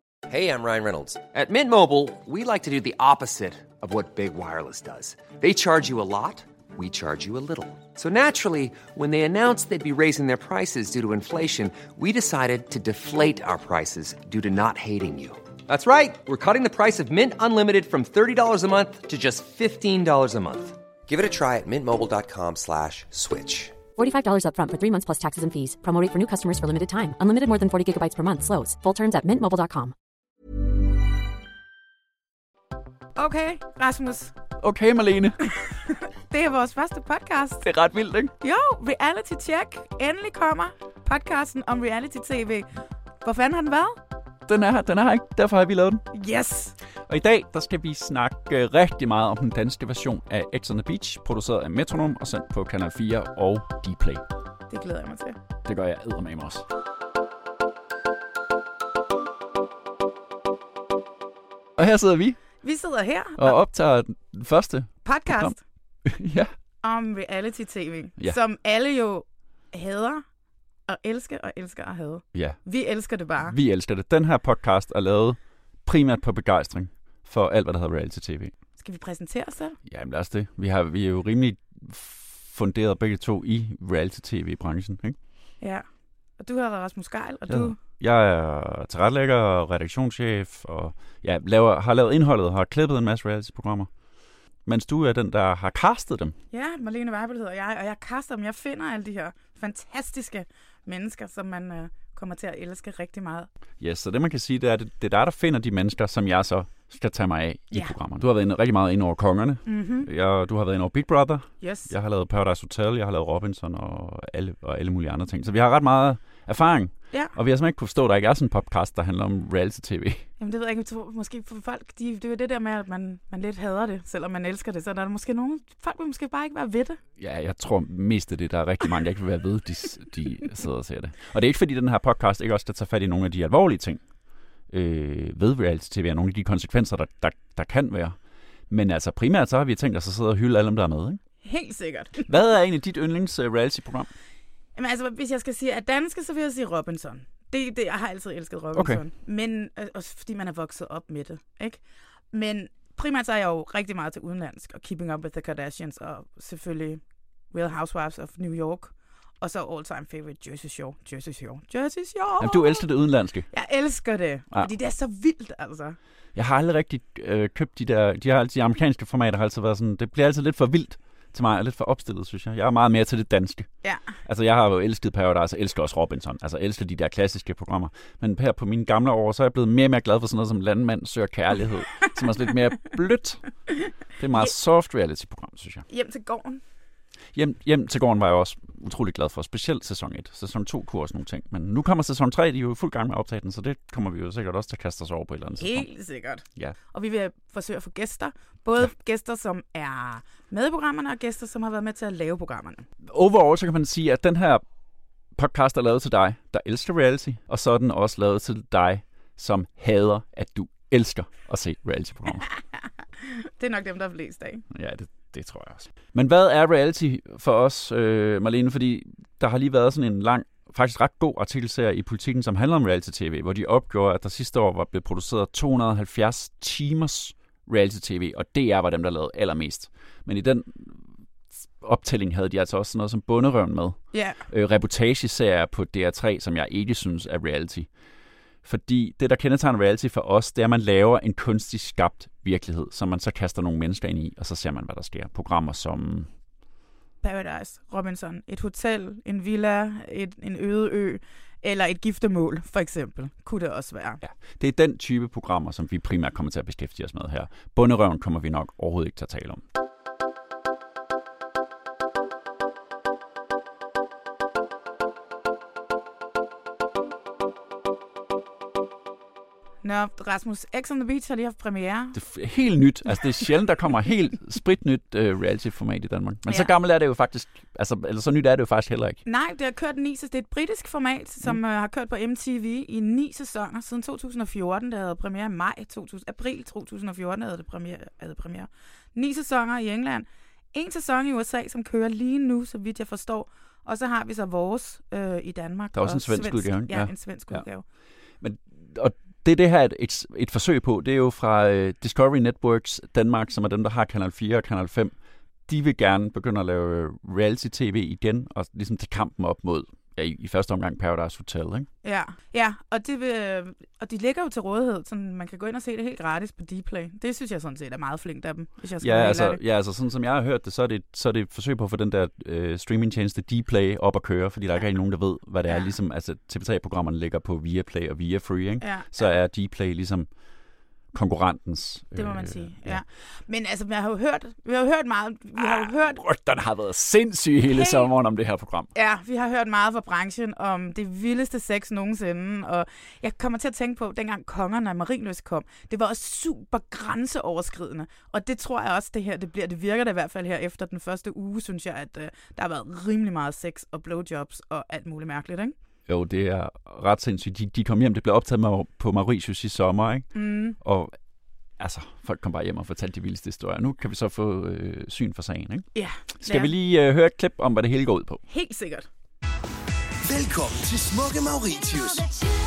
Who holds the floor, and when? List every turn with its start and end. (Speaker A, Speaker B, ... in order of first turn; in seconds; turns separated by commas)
Speaker A: 0.3-23.8, Speaker B: 23.9-29.9, Speaker C: 33.2-34.3, Speaker D: 34.6-35.5, Speaker C: 35.9-37.7, Speaker D: 37.6-38.3, Speaker C: 38.4-44.0, Speaker D: 44.5-46.0, Speaker C: 46.1-46.8, Speaker D: 47.1-54.2, Speaker C: 54.7-55.4, Speaker D: 55.6-56.6, Speaker D: 61.8-62.4, Speaker C: 62.6-63.6, Speaker D: 63.4-66.5, Speaker C: 65.0-65.6, Speaker C: 66.8-70.2, Speaker C: 70.9-73.5, Speaker D: 72.3-72.6, Speaker D: 73.4-78.5, Speaker C: 78.8-79.8, Speaker D: 79.9-85.2, Speaker C: 85.6-85.8, Speaker C: 86.4-87.8, Speaker D: 87.5-93.9, Speaker D: 94.7-96.3, Speaker C: 96.5-103.5, Speaker D: 103.8-120.2, Speaker C: 109.7-110.1, Speaker C: 111.6-111.9, Speaker C: 120.4-127.0, Speaker D: 127.2-134.0, Speaker D: 134.7-138.2, Speaker D: 138.7-141.2, Speaker C: 141.4-142.3, Speaker D: 142.3-144.1, Speaker C: 144.8-162.8, Speaker D: 148.7-149.0, Speaker D: 162.4-163.5, Speaker C: 163.5-166.0, Speaker D: 166.3-173.7, Speaker C: 173.8-174.1, Speaker D: 174.2-183.5, Speaker D: 184.2-185.8, Speaker C: 185.9-186.6, Speaker D: 187.3-195.9, Speaker C: 195.6-202.8, Speaker D: 203.0-204.6, Speaker D: 205.3-212.4, Speaker C: 213.2-214.6, Speaker D: 214.7-231.1, Speaker D: 231.6-237.9, Speaker C: 234.1-234.4, Speaker D: 238.7-246.3, Speaker C: 247.2-254.2, Speaker D: 254.2-259.6, Speaker C: 269.8-272.2, Speaker D: 272.1-279.2, Speaker C: 279.2-297.8, Speaker D: 295.9-297.6, Speaker D: 298.4-305.1, Speaker D: 305.7-311.9, Speaker C: 312.0-319.6, Speaker D: 319.0-330.3, Speaker C: 325.7-325.9, Speaker C: 328.8-329.3, Speaker D: 331.1-333.0, Speaker C: 332.2-336.2, Speaker D: 335.6-338.9, Speaker C: 337.7-338.1, Speaker C: 338.9-355.7, Speaker D: 356.1-360.3, Speaker C: 360.4-360.8, Speaker D: 360.8-361.1, Speaker D: 361.8-365.9, Speaker C: 365.9-366.7, Speaker D: 366.4-368.4, Speaker C: 368.5-369.1, Speaker E: 370.2-372.3